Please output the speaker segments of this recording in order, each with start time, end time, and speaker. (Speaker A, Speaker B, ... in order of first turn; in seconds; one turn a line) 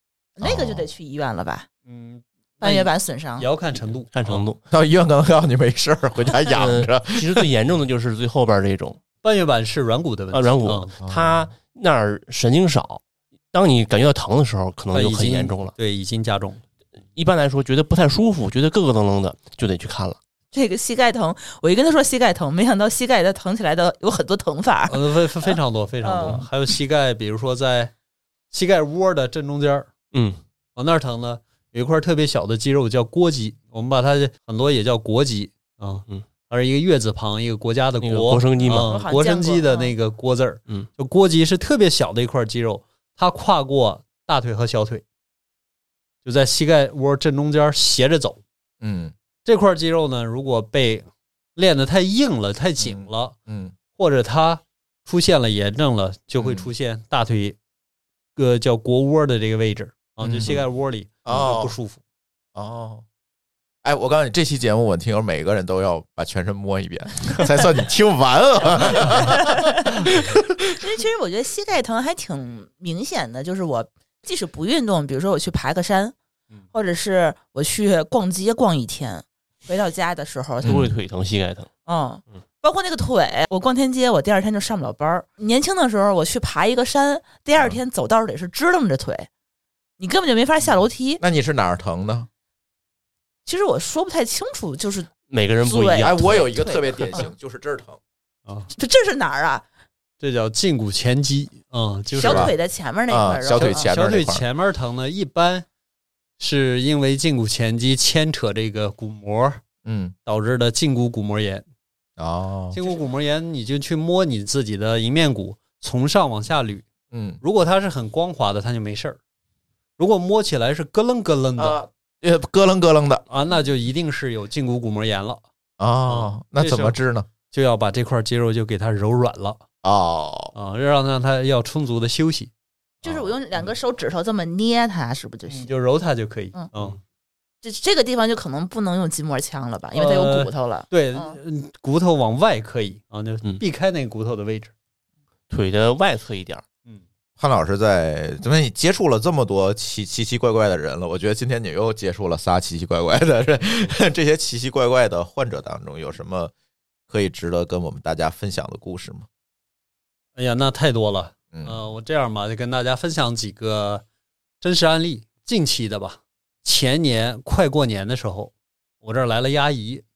Speaker A: 0.4-1.7
Speaker B: 0.4-0.8
Speaker C: 1.9-4.5
Speaker A: 2.6-3.5
Speaker D: 4.1-4.6
Speaker B: 4.7-7.5
Speaker D: 6.5-9.0
Speaker C: 9.2-11.0
Speaker D: 10.3-15.8
Speaker B: 11.0-11.5
Speaker C: 14.9-16.6
Speaker D: 17.1-20.2
Speaker A: 20.5-26.4
Speaker C: 24.9-27.9
Speaker C: 28.5-29.9
Speaker D: 30.1-30.4
Speaker C: 30.8-45.0
Speaker D: 38.0-38.9
Speaker A: 38.6-39.9
Speaker C: 46.2-48.4
Speaker B: 48.8-49.1
Speaker C: 49.5-53.4
Speaker B: 52.8-53.8
Speaker C: 53.9-57.6
Speaker B: 56.4-56.7
Speaker C: 58.4-62.0
Speaker B: 60.2-60.6
Speaker B: 61.2-61.7
Speaker B: 62.5-63.0
Speaker B: 63.8-70.8
Speaker A: 69.1-69.8
Speaker A: 70.8-76.2
Speaker A: 76.7-80.8
Speaker B: 80.6-80.9
Speaker D: 80.6-81.7
Speaker A: 81.9-89.3
Speaker A: 90.0-91.2
Speaker B: 91.2-92.3
Speaker A: 93.5-95.1
Speaker D: 95.3-96.4
Speaker A: 95.6-97.3
Speaker B: 96.0-98.0
Speaker A: 98.7-99.7
Speaker C: 100.2-102.5
Speaker A: 102.1-103.9
Speaker B: 102.2-102.5
Speaker B: 103.1-104.5
Speaker C: 103.5-105.7
Speaker C: 106.4-109.6
Speaker B: 109.8-110.2
Speaker C: 110.3-111.7
Speaker B: 112.2-112.8
Speaker C: 112.7-116.8
Speaker B: 117.1-117.4
Speaker C: 117.4-119.2
Speaker C: 120.0-121.8
Speaker B: 121.6-123.2
Speaker C: 123.3-125.4
Speaker B: 125.8-127.3
Speaker C: 126.1-129.6
Speaker B: 129.8-130.5
Speaker C: 130.5-132.5
Speaker B: 133.0-133.3
Speaker A: 133.1-135.7
Speaker C: 135.5-137.0
Speaker A: 137.6-141.4
Speaker C: 139.9-144.7
Speaker D: 145.5-146.7
Speaker B: 147.4-156.5
Speaker B: 157.1-159.3
Speaker C: 160.4-164.0
Speaker B: 161.5-161.8
Speaker C: 164.6-170.0